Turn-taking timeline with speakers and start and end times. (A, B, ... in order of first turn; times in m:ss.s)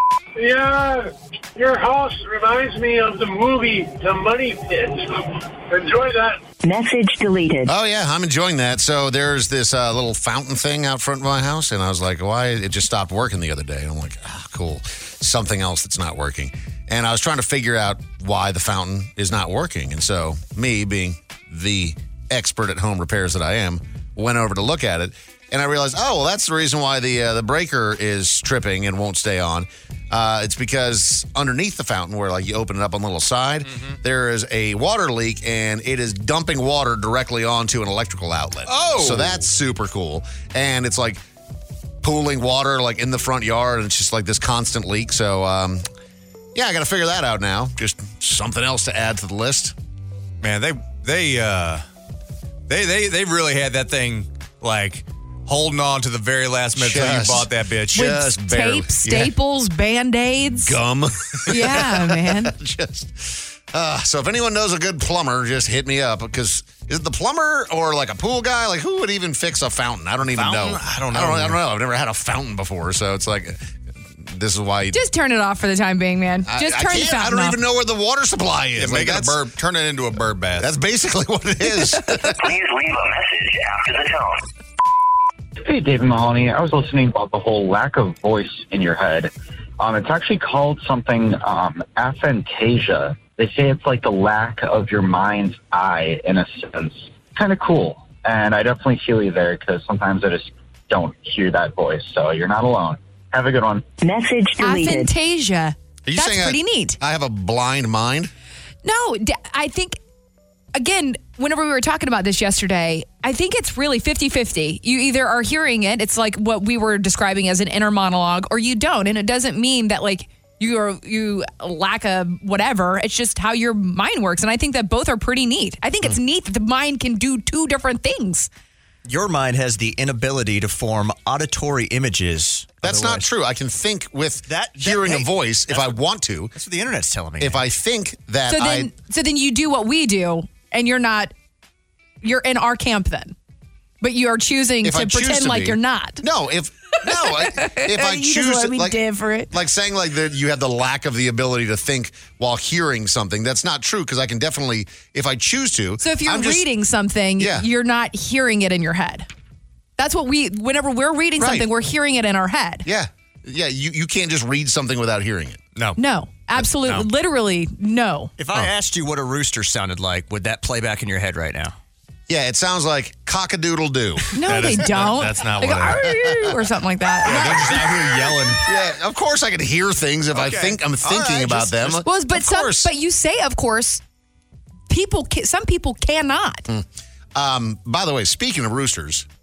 0:00.4-0:06.4 A
0:06.6-0:07.7 B
0:07.7-0:41.2 C
0:33.7-0:34.0 D
0:38.7-0:39.5 D
0:42.0-0:45.8 C
0:46.6-0:49.7 C
0:50.4-0:51.8 D
0:52.7-0:58.2 D
0:56.8-0:59.3 C
0:57.9-1:00.8 E
1:00.5-1:13.6 C
1:01.5-1:02.5 E
1:10.3-1:11.6 D
1:14.2-1:15.0 C
1:14.9-1:17.6 E
1:16.5-1:19.4 C
1:18.8-1:20.7 D
1:20.6-1:22.4 C
1:22.4-1:24.4 F
1:25.6-1:43.8 G
1:44.0-1:45.1 B
1:44.6-1:47.0 E
1:46.0-1:48.3 C
1:48.8-1:50.0 E
1:50.8-2:08.5 E
2:09.1-2:13.3 H
2:12.8-2:16.5 C
2:14.5-2:15.9 H
2:16.6-2:17.6 H
2:17.4-2:18.9 C
2:18.5-2:21.3 E
2:22.2-2:23.4 E
2:24.0-2:26.2 E
2:24.8-2:29.0 C
2:27.2-2:29.5 E
2:29.5-2:36.7 C
2:36.0-2:39.3 E
2:37.4-2:37.7 C
2:40.0-2:42.8 E
2:41.4-2:41.7 C
2:42.8-2:45.6 C
2:46.0-2:48.3 E
2:48.4-2:51.8 H
2:52.3-2:54.3 C
2:54.4-2:57.6 E
2:54.5-2:56.1 D
2:56.0-2:56.6 C
2:57.2-2:58.0 C
2:57.2-2:58.6 D
2:58.6-3:02.9 C
3:00.3-3:02.0 D
3:02.0-3:04.0 E
3:04.9-3:06.7 E
3:06.7-3:09.3 C